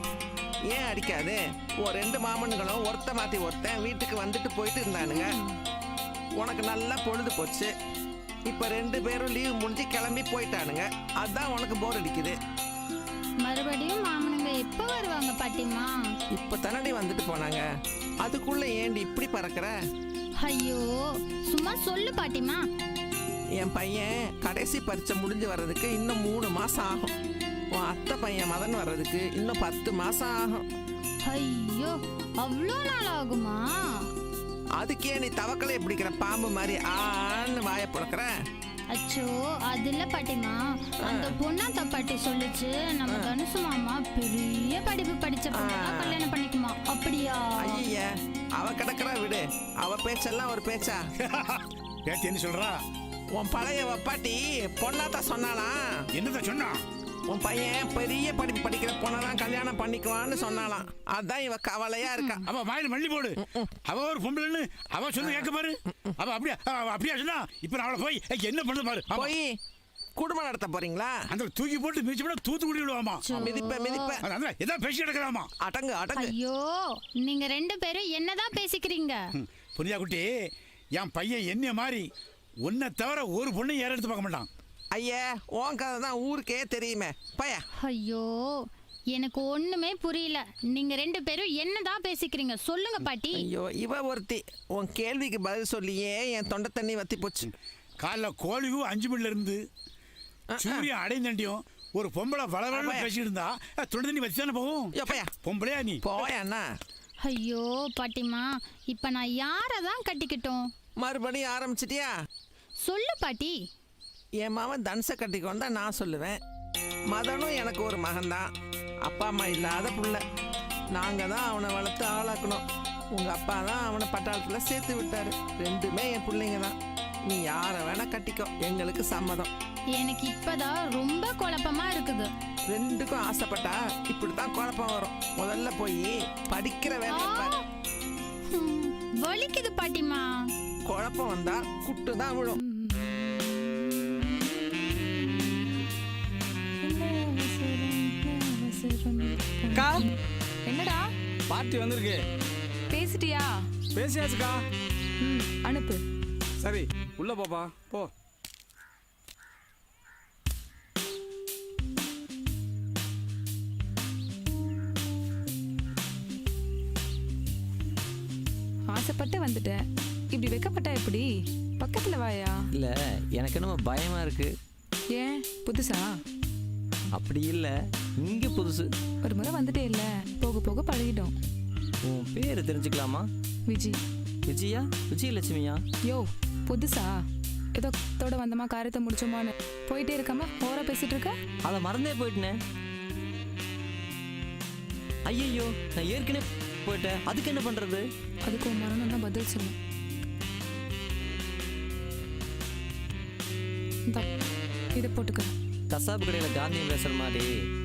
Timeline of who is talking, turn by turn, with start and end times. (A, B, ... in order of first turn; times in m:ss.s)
0:00.7-0:05.4 A
0:05.1-0:05.5 B
0:06.4-0:07.7 A
0:08.5-0:12.4 A
0:13.4-0:15.9 B
0:16.3-0:17.6 A
0:18.2-0:19.7 A
0:20.4-0:21.0 B
0:21.5-0:22.6 B
0:23.6-0:27.1 A
0:27.7-0:30.6 A
0:31.3-0:33.6 B
0:34.8-0:38.3 A
0:38.9-0:47.8 B
0:41.0-0:41.3 A
0:45.5-0:46.2 A
0:47.6-0:51.0 A
0:51.2-0:52.8 C
0:53.4-0:55.8 A
0:56.2-0:56.8 C
0:57.3-1:02.4 A
1:02.1-1:02.4 B
1:02.5-1:03.4 C
1:03.4-1:03.7 A
1:03.9-1:09.3 C
1:05.2-1:05.5 A
1:09.1-1:09.5 A
1:10.2-1:11.2 A
1:11.3-1:13.3 C
1:13.2-1:14.2 B
1:13.4-1:14.2 A
1:14.2-1:15.5 C
1:15.6-1:16.3 A
1:16.2-1:19.2 B
1:19.4-1:20.2 C
1:21.0-1:22.0 C
1:22.7-1:24.5 C
1:24.9-1:27.6 A
1:27.8-1:33.4 B
1:33.3-1:37.5 A
1:38.0-1:39.6 C
1:40.5-1:40.9 A
1:40.6-1:46.0 C
1:42.7-1:43.1 A
1:45.0-1:45.3 A
1:46.0-1:46.6 A
1:47.2-1:50.6 B
1:51.0-1:52.1 A
1:52.8-1:53.6 B
1:54.4-1:56.4 A
1:57.1-1:58.5 A
1:59.1-2:00.2 A
2:01.0-2:02.6 A
2:03.2-2:06.7 A
2:07.3-2:09.5 A
2:10.0-2:12.3 B
2:12.7-2:17.5 A
2:17.1-2:17.6 B
2:18.5-2:20.3 B
2:20.9-2:22.6 A
2:22.6-2:25.6 D
2:26.8-2:30.2 D
2:29.7-2:30.0 E
2:30.7-2:31.0 D
2:31.5-2:32.2 E
2:32.9-2:33.5 D
2:34.0-2:34.6 E
2:35.2-2:36.0 D
2:36.6-2:38.1 E
2:48.9-2:49.8 D
2:50.3-2:52.5 D
2:52.8-2:54.5 F
2:55.2-2:56.1 D
2:57.2-2:58.9 F
2:59.2-3:01.3 D
3:02.0-3:03.3 F
3:03.7-3:04.0 D
3:04.5-3:05.8 F
3:06.1-3:07.1 D
3:07.8-3:11.3 D
3:11.6-3:12.6 F
3:15.3-3:18.0 F
3:18.5-3:19.8 D
3:25.0-3:25.5 D
3:25.9-3:27.5 F